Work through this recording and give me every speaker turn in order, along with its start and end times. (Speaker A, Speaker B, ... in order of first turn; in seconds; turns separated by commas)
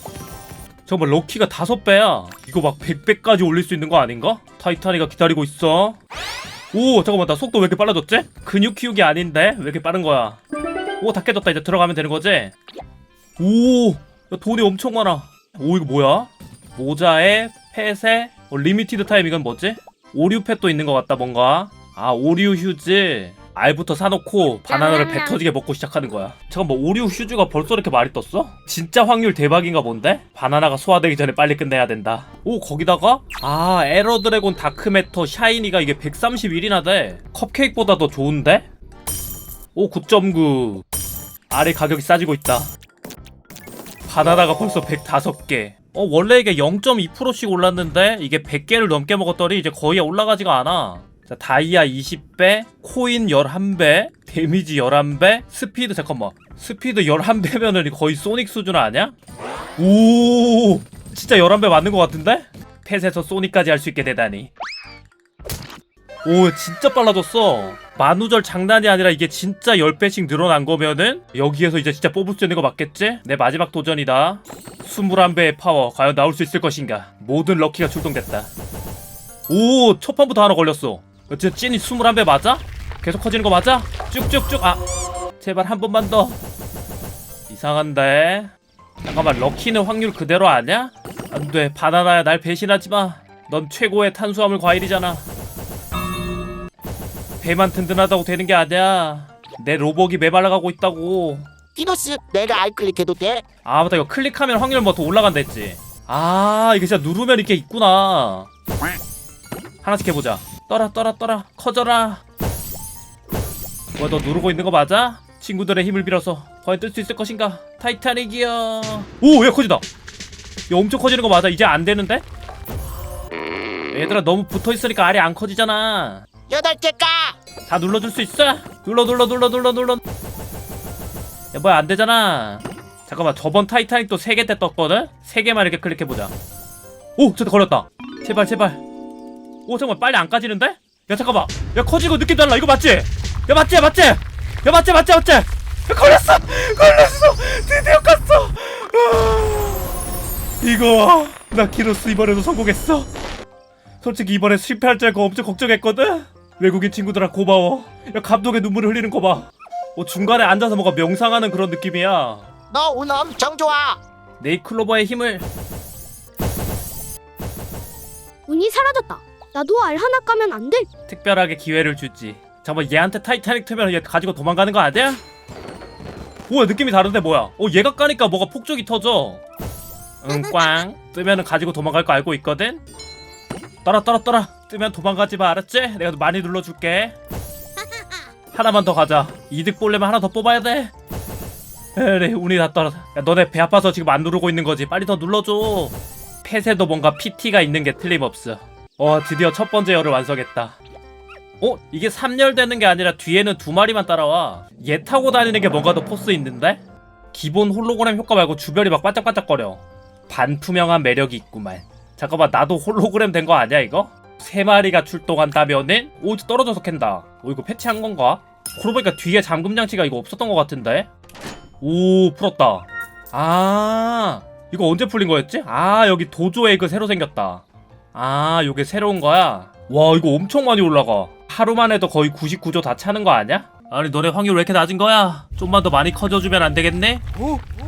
Speaker A: 0.9-6.0, Speaker A: 6.7-10.4, Speaker A: 11.0-12.5, Speaker A: 13.4-38.7, Speaker A: 39.8-40.8, Speaker A: 41.5-42.7, Speaker A: 44.1-59.1, Speaker A: 59.8-64.5, Speaker A: 66.2-78.5, Speaker A: 79.5-84.8, Speaker A: 85.4-86.4, Speaker A: 87.5-88.5, Speaker A: 89.0-95.3, Speaker A: 97.4-101.5, Speaker B: 101.8-103.4, Speaker A: 103.7-108.5, Speaker A: 109.8-112.2, Speaker A: 114.0-119.9, Speaker A: 120.7-122.2, Speaker A: 123.9-126.2, Speaker B: 126.5-127.4, Speaker A: 127.7-130.0, Speaker A: 131.5-136.3, Speaker A: 137.2-138.8, Speaker A: 139.7-149.9, Speaker A: 150.6-153.1, Speaker A: 154.0-162.5, Speaker B: 162.7-164.0, Speaker A: 164.4-165.5, Speaker C: 168.5-170.9, Speaker A: 171.1-175.2, Speaker A: 176.5-179.4, Speaker A: 180.2-182.8, Speaker A: 183.8-187.2, Speaker A: 188.5-190.9, Speaker A: 192.0-200.8, Speaker A: 201.6-206.8, Speaker A: 207.3-221.1, Speaker A: 221.8-227.6, Speaker A: 228.1-237.2